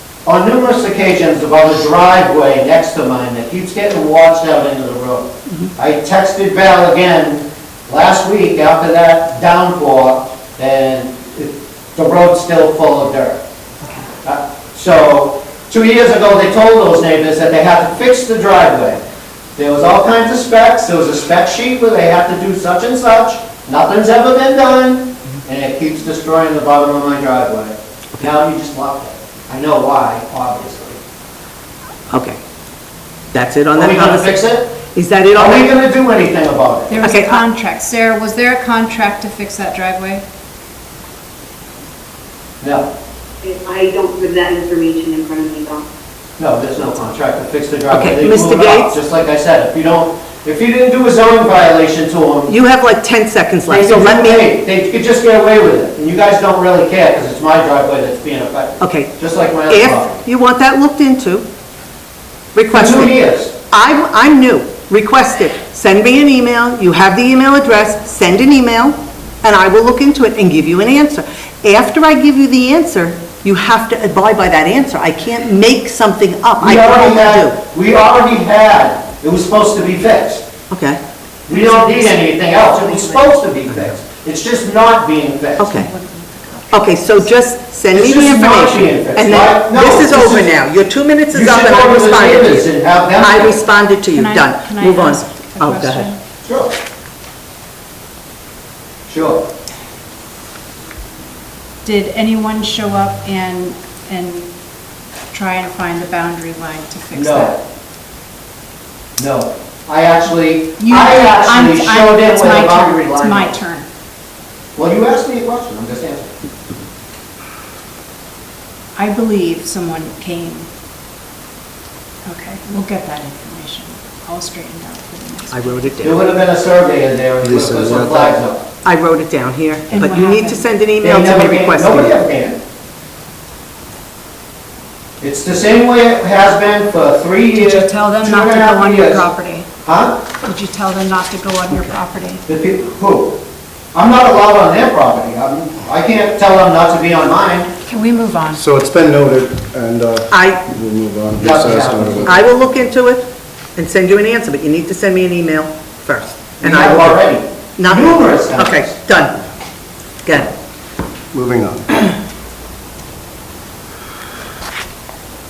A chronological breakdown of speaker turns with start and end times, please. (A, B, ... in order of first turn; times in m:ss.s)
0:00.2-0:13.4 A
0:14.2-0:19.0 A
0:19.6-0:31.0 A
0:32.1-0:32.4 B
0:33.3-0:35.7 B
0:33.7-0:34.7 A
0:35.3-0:37.1 A
0:36.9-0:40.2 C
0:37.0-0:37.4 B
0:42.6-0:42.9 A
0:43.4-0:45.8 D
0:46.4-0:52.5 A
0:47.9-0:49.0 B
0:52.5-0:54.5 B
0:53.7-1:00.2 A
0:58.8-1:01.4 B
1:02.5-1:03.2 B
1:02.7-1:03.5 A
1:03.7-1:17.6 B
1:16.6-1:20.4 A
1:20.7-1:21.0 B
1:21.5-1:25.7 A
1:21.5-1:23.2 C
1:22.7-1:23.2 B
1:25.6-1:25.9 B
1:25.7-1:27.4 C
1:26.7-1:36.1 B
1:27.9-1:30.6 A
1:31.3-1:33.6 A
1:34.1-1:36.2 C
1:36.4-1:36.7 A
1:39.1-1:39.4 A
1:41.8-1:44.5 C
1:45.3-1:47.6 C
1:47.1-1:47.6 A
1:49.2-1:53.6 A
1:50.8-1:53.9 C
1:54.8-1:56.3 A
1:59.0-2:00.7 C
2:02.2-2:06.2 C
2:05.5-2:06.2 B
2:06.0-2:08.6 A
2:07.4-2:08.4 E
2:08.8-2:12.2 B
2:09.9-2:10.6 C
2:11.0-2:12.6 A
2:15.2-2:19.3 A
2:17.5-2:19.7 C
2:19.8-2:20.2 A
2:20.4-2:22.4 C
2:22.5-2:23.4 A
2:23.9-2:27.7 A
2:27.8-2:28.6 C
2:28.5-2:32.4 E
2:30.3-2:30.6 B
2:31.4-2:32.3 A
2:32.2-2:39.4 B
2:36.6-2:39.0 A
2:40.2-2:40.5 B
2:41.3-2:42.0 E